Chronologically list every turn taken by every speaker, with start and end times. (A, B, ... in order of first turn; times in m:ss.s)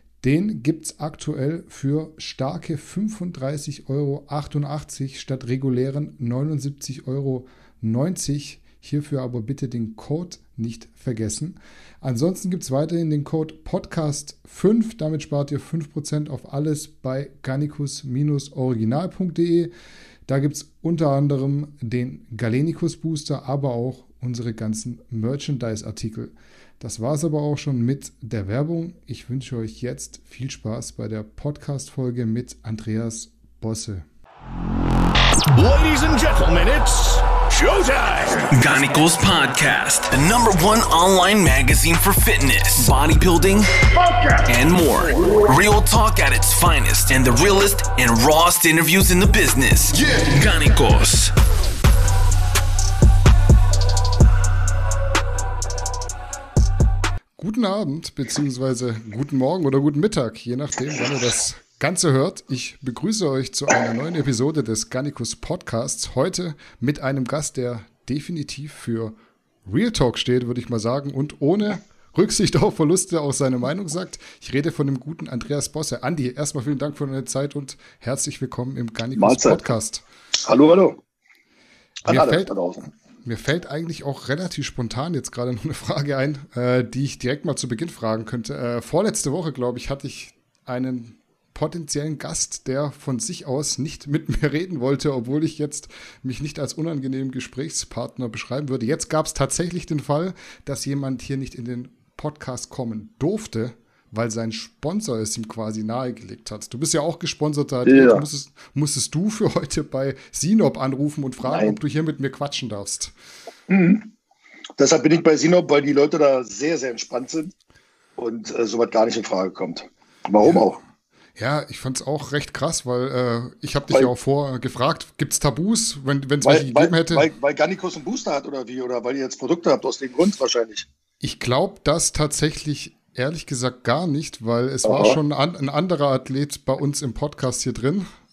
0:00.2-0:19.7 A
0:20.3-0:34.0 A
0:35.5-0:38.5 B
0:38.5-0:43.8 C
0:43.9-0:44.6 B
0:44.4-0:51.3 C
0:49.9-0:50.4 B
0:57.4-1:09.1 A
1:09.6-1:20.0 A
1:19.2-1:19.8 D
1:20.4-1:21.0 D
1:22.0-1:22.5 A
1:22.0-1:22.8 D
1:23.2-1:53.1 A
1:47.8-1:48.2 D
1:51.4-1:51.8 D
1:53.7-1:54.1 D
1:54.8-1:57.5 D
1:58.2-2:00.8 D
2:01.4-2:07.3 A
2:06.4-2:10.9 D
2:11.2-2:18.0 A
2:14.8-2:15.2 D